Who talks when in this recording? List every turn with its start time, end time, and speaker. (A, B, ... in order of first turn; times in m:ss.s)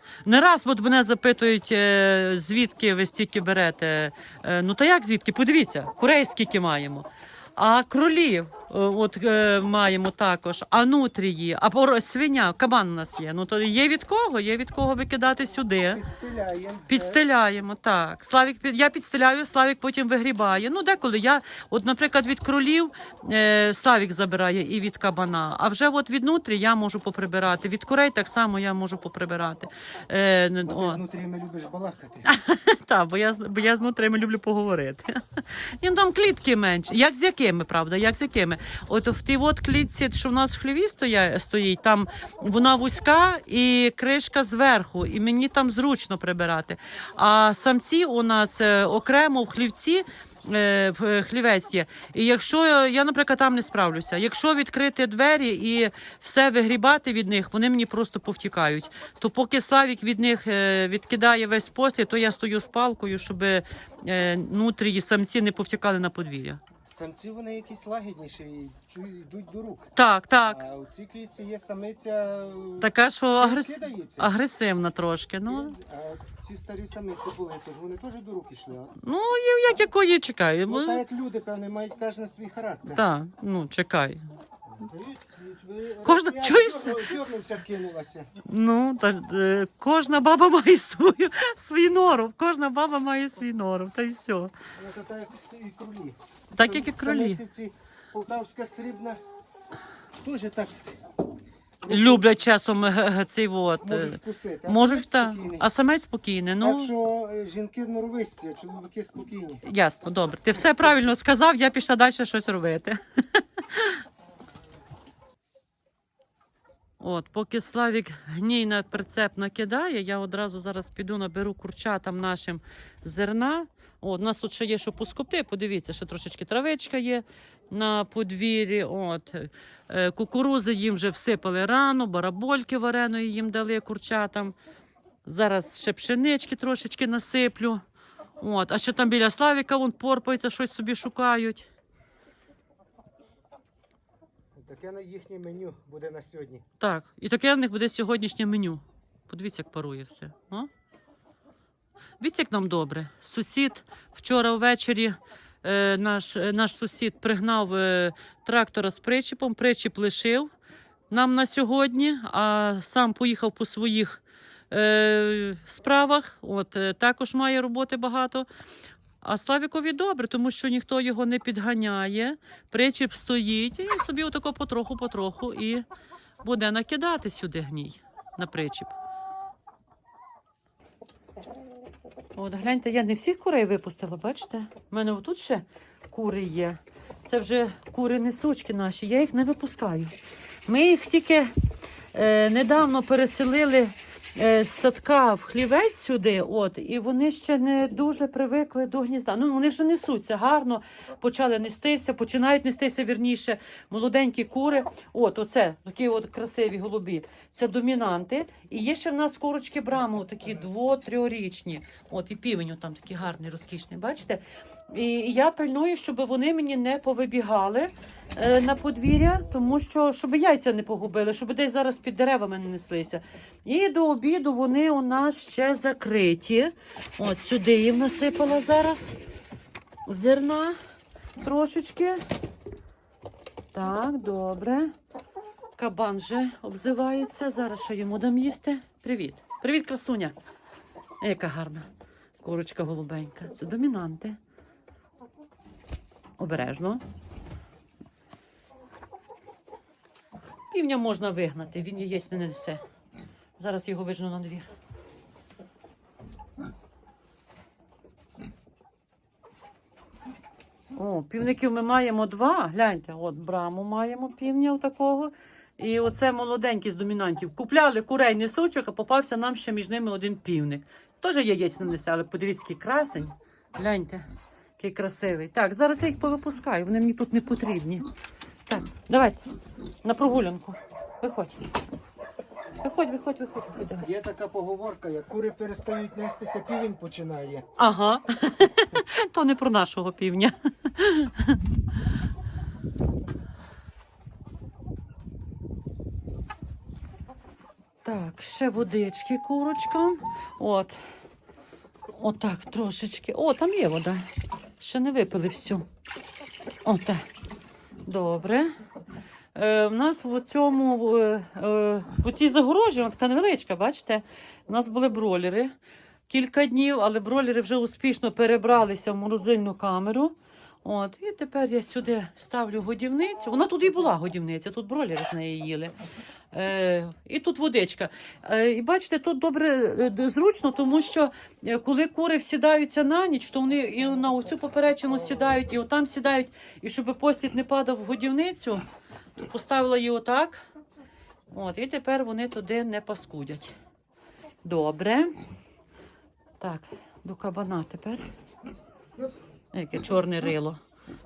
0:00.2-0:16.0 A
0:15.9-0:17.2 B
0:16.9-0:31.0 A
0:30.6-0:32.3 B
0:32.3-1:06.6 A
1:06.8-1:09.9 B
1:10.0-1:10.6 A
1:10.4-1:14.3 B
1:12.8-1:15.7 A
1:15.4-1:19.0 B
1:19.0-1:21.0 A
1:20.7-1:23.0 B
1:22.9-1:24.2 A
1:24.7-1:28.3 B
1:26.0-1:27.4 A
1:28.4-1:34.5 A
1:34.7-1:39.2 B
1:36.5-1:37.4 A
1:40.2-1:41.0 B
1:41.8-1:42.4 B
1:41.8-1:46.9 A
1:43.8-1:45.7 B
1:46.6-1:49.6 B
1:49.6-1:54.0 A
1:50.5-1:50.9 B
1:57.0-2:14.5 A
2:15.2-2:17.8 A
2:18.4-2:21.7 A
2:24.5-2:26.6 B
2:26.8-2:30.7 A
2:32.2-2:40.5 A
2:41.1-2:48.5 A
2:49.2-2:55.8 A
2:56.4-2:58.9 A
3:02.3-3:10.1 A
3:10.6-3:11.5 A
3:12.1-3:49.2 A
3:50.0-3:50.8 A
3:51.4-3:52.2 A
3:53.7-3:54.9 A
3:55.8-4:00.4 A
4:01.2-4:01.9 A
4:02.4-4:04.4 A
4:06.4-4:07.0 A
4:10.7-4:12.8 A
4:13.6-4:14.7 A
4:20.9-4:34.3 A
4:34.8-4:38.0 A
4:38.7-4:39.4 A
4:40.0-4:41.5 A
4:42.8-4:44.1 A
4:44.0-4:47.7 B
4:47.8-4:51.6 A
4:58.0-5:01.0 A
5:02.1-5:04.2 A
5:04.8-5:05.9 A
5:06.8-5:07.2 A
5:08.0-5:08.7 A
5:09.5-5:15.7 A
5:16.3-5:26.0 A
5:26.5-5:38.8 A
5:39.4-5:40.6 A
5:41.5-5:43.7 A
5:44.6-5:45.4 A
5:46.6-5:48.3 A
5:49.7-5:50.8 A